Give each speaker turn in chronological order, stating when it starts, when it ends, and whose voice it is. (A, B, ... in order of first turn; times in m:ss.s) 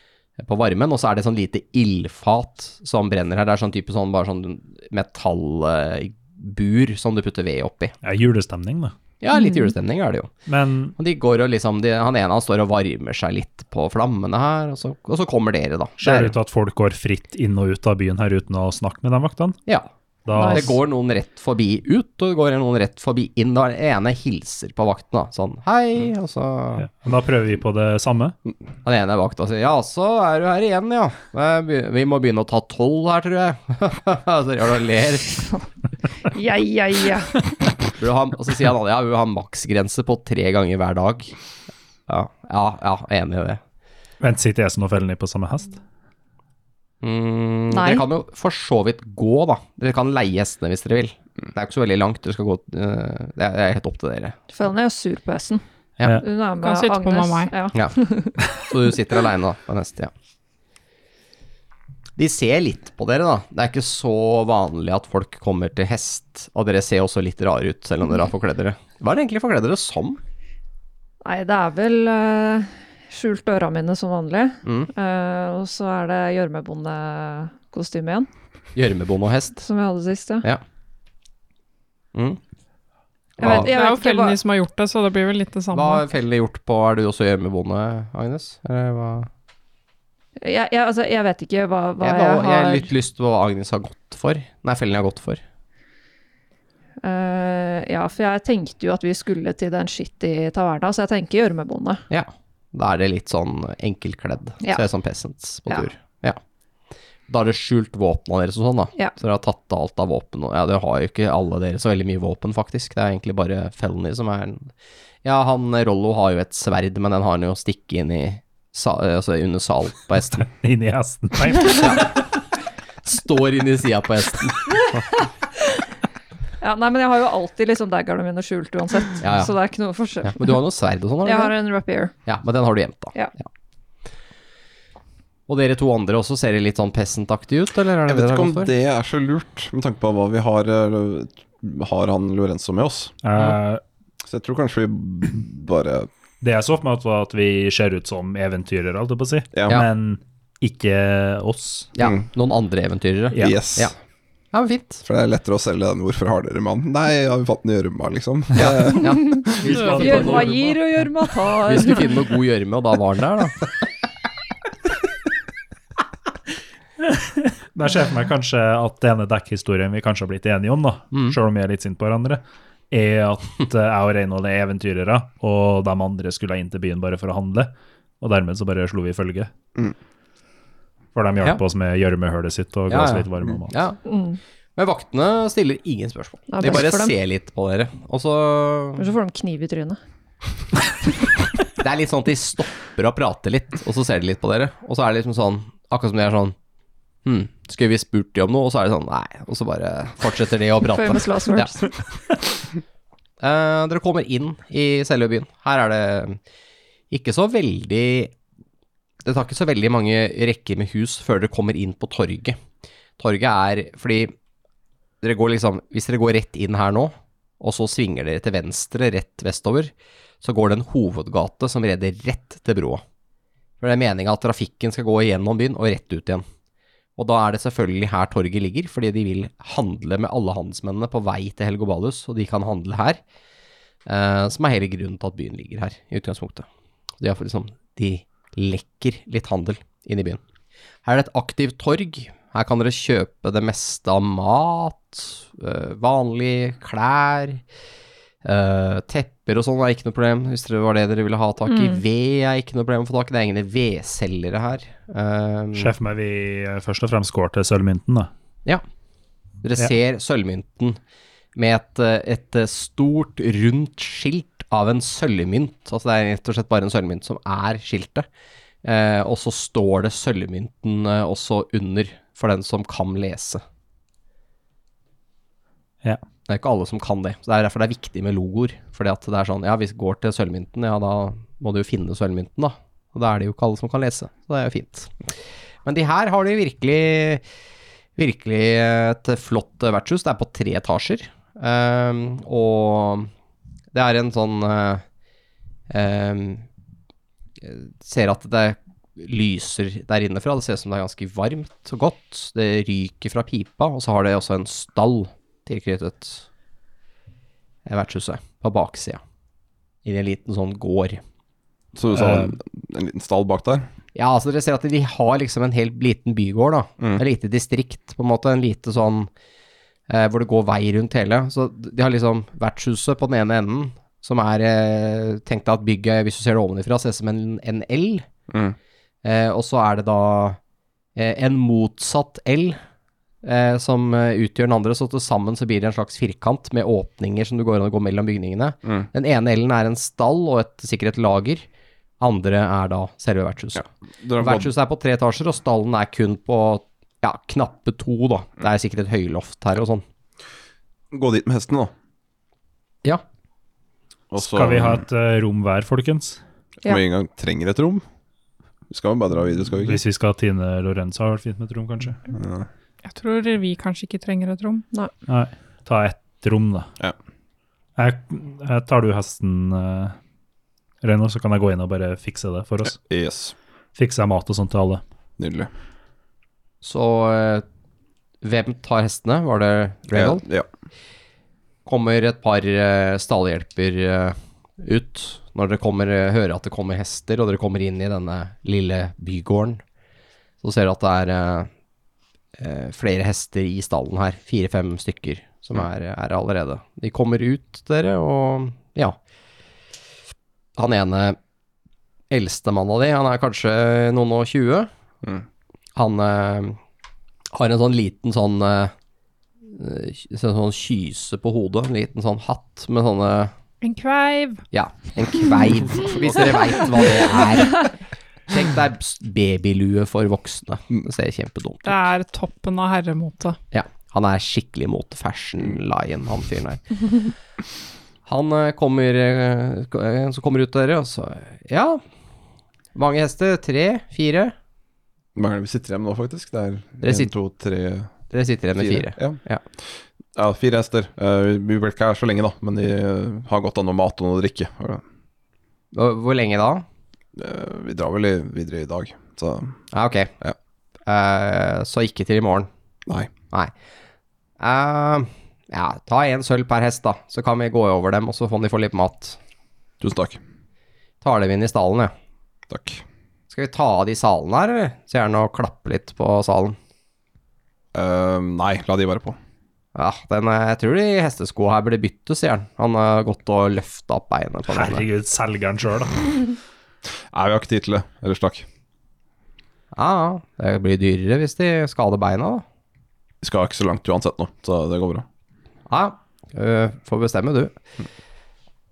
0:00.4-0:07.9 A
0:08.0-0:08.9 B
0:09.2-0:10.3 A
0:09.3-0:09.7 C
0:10.5-0:10.9 B
0:11.0-0:16.3 A
0:16.0-0:19.6 B
0:19.6-0:26.9 A
0:20.2-0:20.8 B
0:26.8-0:28.3 B
0:28.8-0:35.5 A
0:36.2-0:37.6 C
0:37.9-0:41.3 A
0:42.1-0:43.6 A
0:44.2-0:45.8 B
0:47.0-0:54.4 A
0:47.7-0:48.0 C
0:54.5-0:58.5 C
0:56.6-0:57.5 D
0:57.7-1:00.1 A
1:02.2-1:10.2 A
1:11.2-1:18.3 C
1:14.6-1:14.9 A
1:18.7-1:19.6 A
1:19.6-1:20.5 C
1:22.1-1:22.4 A
1:23.4-1:23.7 A
1:23.4-1:24.4 C
1:23.4-1:26.0 D
1:25.7-1:29.3 A
1:30.4-1:32.9 C
1:32.0-1:35.4 A
1:37.0-1:42.0 C
1:42.1-1:46.4 A
1:47.3-1:54.7 A
1:55.2-2:00.5 A
2:00.4-2:02.2 B
2:01.7-2:02.2 A
2:03.0-2:05.0 A
2:06.6-2:10.6 C
2:09.2-2:09.5 A
2:10.2-2:11.5 A
2:11.2-2:12.1 C
2:12.2-2:13.5 A
2:15.5-2:18.7 A
2:18.1-2:23.1 E
2:23.2-2:23.8 B
2:24.3-2:26.1 E
2:26.4-2:31.9 B
2:29.5-2:29.8 E
2:32.0-2:33.9 A
2:33.3-2:33.6 B
2:33.4-2:33.9 E
2:34.5-2:35.0 A
2:35.0-2:39.7 E
2:38.6-2:40.4 A
2:39.1-2:42.2 C
2:39.6-2:40.8 B
2:41.6-2:43.7 A
2:47.7-2:59.5 B
2:51.1-2:51.4 A
3:01.1-3:03.8 B
3:02.9-3:04.0 A
3:04.0-3:04.4 C
3:04.8-3:09.1 A
3:06.5-3:07.1 C
3:09.0-3:10.0 C
3:11.7-3:16.6 A
3:17.2-3:21.7 A
3:20.9-3:21.9 C
3:23.4-3:26.4 A
3:27.1-3:28.3 A
3:29.2-3:32.6 A
3:33.2-3:34.3 A
3:35.2-3:43.0 A
3:43.8-3:46.4 A
3:47.2-3:53.2 A
3:54.0-3:56.7 A
3:57.2-4:00.4 A
4:01.0-4:07.6 A
4:08.4-4:15.9 A
4:11.7-4:12.0 C
4:15.7-4:18.3 B
4:19.6-4:21.0 A
4:21.5-4:28.3 A
4:28.8-4:33.6 A
4:36.5-4:45.1 A
4:45.8-4:47.4 A
4:48.2-4:53.3 A
4:53.9-4:55.0 A
4:55.9-4:56.6 A
4:57.6-5:06.5 A
5:07.8-5:09.2 A
5:10.0-5:11.2 A
5:12.0-5:13.8 E
5:12.1-5:12.5 B
5:14.1-5:19.3 A
5:20.1-5:28.3 A
5:28.5-5:28.8 E
5:29.2-5:30.6 A
5:31.2-5:32.8 A
5:33.4-5:41.6 A
5:42.2-5:43.9 A
5:44.2-5:44.7 E
5:44.4-5:50.0 A
5:51.1-5:51.9 E
5:54.3-5:55.0 E
5:54.4-5:56.4 B
5:56.8-5:58.0 E
5:58.9-6:00.0 E
5:59.8-6:02.2 B
6:02.3-6:02.7 E
6:03.0-6:04.8 D
6:05.3-6:06.9 B
6:08.0-6:10.2 B
6:11.0-6:13.0 B
6:12.8-6:13.5 E
6:14.0-6:15.0 B
6:15.4-6:15.7 E
6:16.8-6:17.6 A
6:18.4-6:20.4 A
6:20.1-6:20.7 E
6:21.8-6:29.8 A
6:30.6-6:31.7 A
6:32.6-6:39.2 A
6:40.8-6:41.4 A
6:42.3-6:44.9 A
6:46.0-6:46.8 A
6:47.5-6:48.9 A
6:49.6-6:53.5 A
6:53.8-6:54.6 D
6:54.7-6:57.9 A
6:58.5-7:02.0 A
7:01.8-7:03.6 D
7:03.7-7:07.3 A
7:08.2-7:12.0 A
7:12.9-7:14.5 A
7:15.3-7:18.1 E
7:17.0-7:17.3 A
7:18.3-7:19.6 A
7:18.8-7:19.4 E
7:20.3-7:25.0 E
7:25.9-7:26.8 A
7:27.4-7:29.8 E
7:29.9-7:30.3 A
7:31.0-7:32.7 A
7:34.6-7:39.4 A
7:40.0-7:40.4 E
7:41.2-7:42.1 A
7:42.7-7:43.0 E
7:43.5-7:46.8 A
7:47.9-7:49.4 E
7:49.9-7:55.1 A
7:54.7-7:56.4 B
7:57.3-7:58.6 E
8:00.0-8:02.6 A
8:03.4-8:05.2 E
8:05.9-8:07.8 A